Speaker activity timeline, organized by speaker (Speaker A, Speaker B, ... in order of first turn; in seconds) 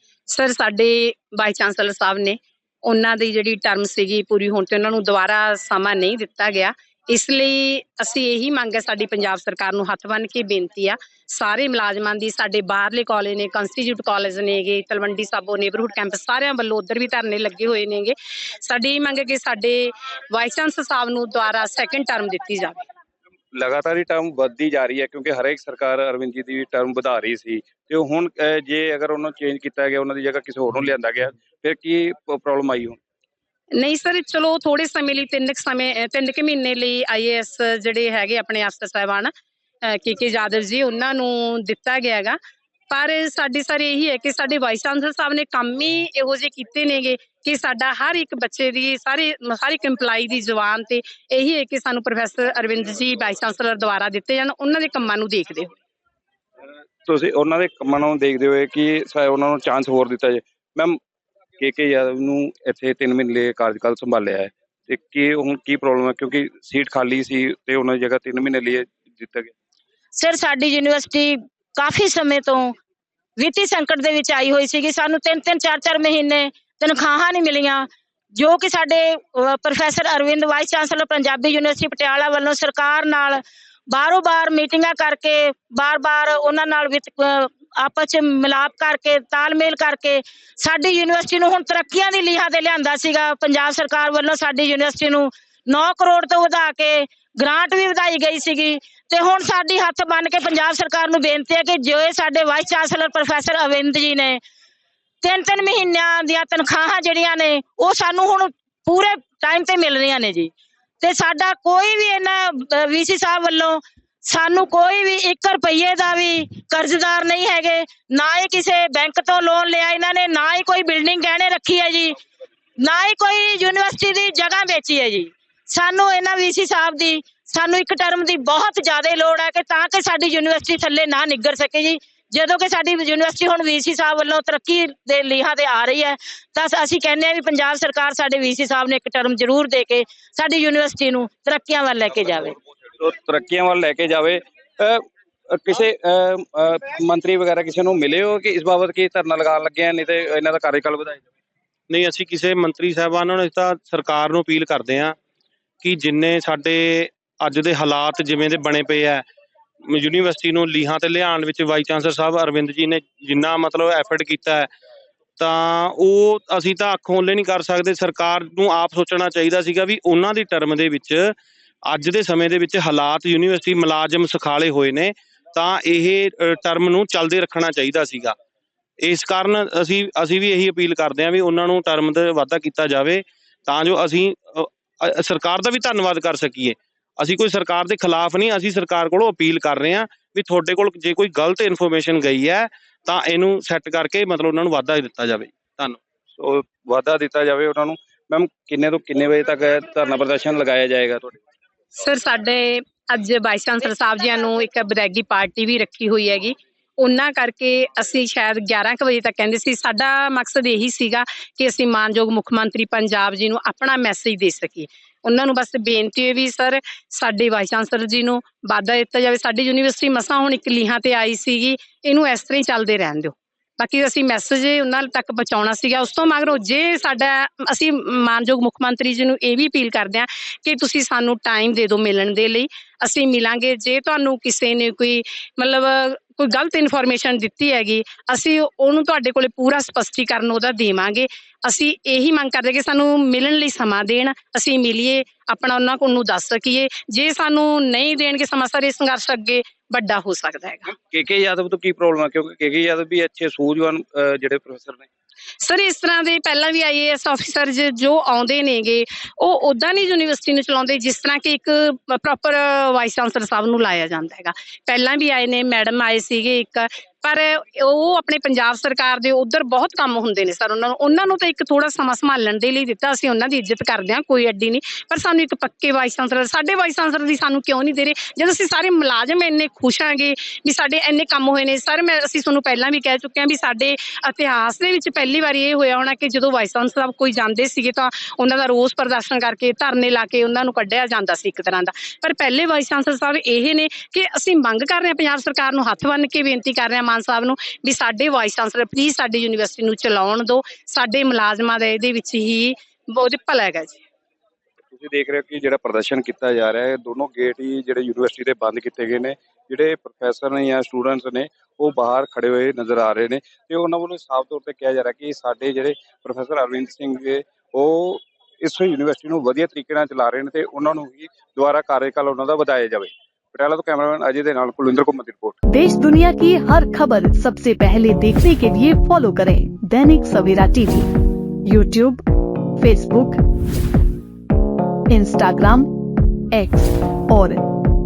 Speaker A: 0.3-22.8, 33.7-39.3, 39.8-42.4, 42.9-55.7, 202.0-250.9, 255.6-304.0
Speaker B: 23.5-33.0, 57.0-61.0, 61.6-69.5, 143.0-151.2, 196.3-201.4, 251.1-255.1, 304.9-325.6
Speaker C: 70.2-72.7, 73.4-104.4, 105.2-122.2, 122.8-142.6
Speaker D: 151.9-155.1, 155.8-159.2, 159.9-164.7, 165.4-171.3, 171.8-178.3, 179.0-196.0
Speaker E: 325.7-331.1, 331.7-332.2, 332.8-333.4, 335.1-335.9, 336.5-337.6